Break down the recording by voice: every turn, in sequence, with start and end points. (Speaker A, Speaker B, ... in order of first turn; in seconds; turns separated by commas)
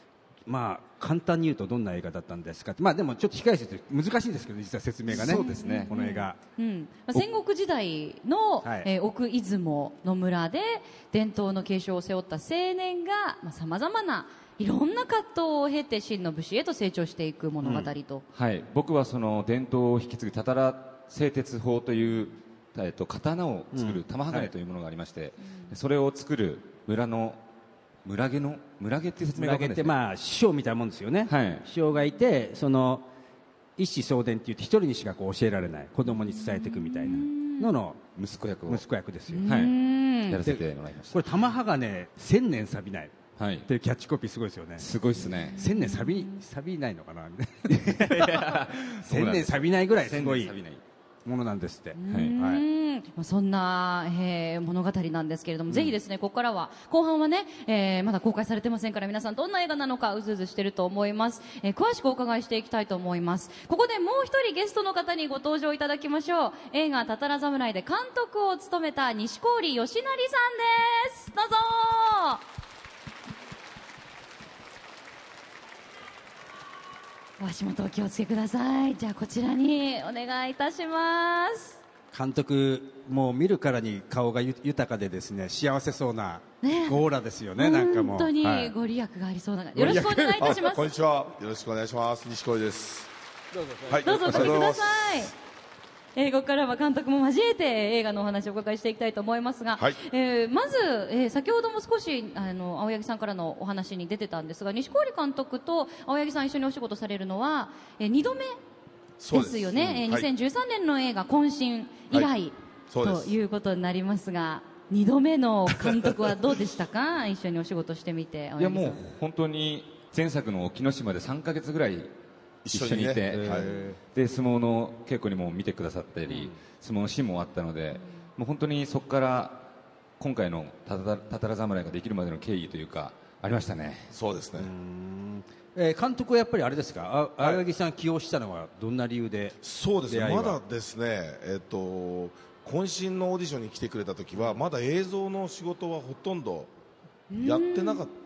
Speaker A: 0.5-6.4, Speaker B: 5.1-5.9, Speaker C: 5.1-18.2, Speaker A: 8.6-8.9, Speaker A: 17.6-17.9, Speaker B: 18.3-27.4, Speaker A: 23.7-24.5, Speaker B: 28.1-29.9, Speaker A: 29.4-33.1, Speaker B: 31.3-31.7, Speaker A: 33.8-38.0, Speaker C: 36.1-37.7, Speaker B: 38.2-38.8, Speaker A: 38.7-39.5, Speaker C: 39.3-40.4, Speaker B: 39.4-41.4, Speaker A: 40.5-43.1, Speaker B: 43.4-43.7, Speaker A: 43.7-44.9, Speaker B: 44.8-45.6, Speaker C: 45.4-46.4, Speaker A: 45.5-50.5, Speaker B: 47.7-50.8, Speaker A: 51.2-52.6, Speaker C: 52.0-72.4, Speaker B: 52.1-52.4, Speaker C: 77.4-81.8, Speaker A: 82.1-88.8, Speaker C: 86.6-87.0, Speaker C: 87.6-90.9, Speaker A: 89.8-90.6, Speaker D: 89.8-93.1, Speaker A: 93.6-94.5, Speaker D: 93.9-95.3, Speaker C: 94.0-95.3, Speaker C: 96.2-108.6, Speaker D: 109.2-110.3, Speaker C: 109.3-119.0, Speaker D: 112.9-113.4, Speaker B: 118.6-122.1, Speaker D: 122.6-123.7, Speaker B: 122.7-129.7, Speaker A: 123.3-124.0, Speaker A: 126.3-126.6, Speaker B: 130.2-134.1, Speaker D: 134.1-134.7, Speaker A: 134.6-139.6, Speaker D: 139.6-146.7, Speaker A: 140.1-140.6, Speaker C: 147.3-148.1, Speaker D: 147.4-148.1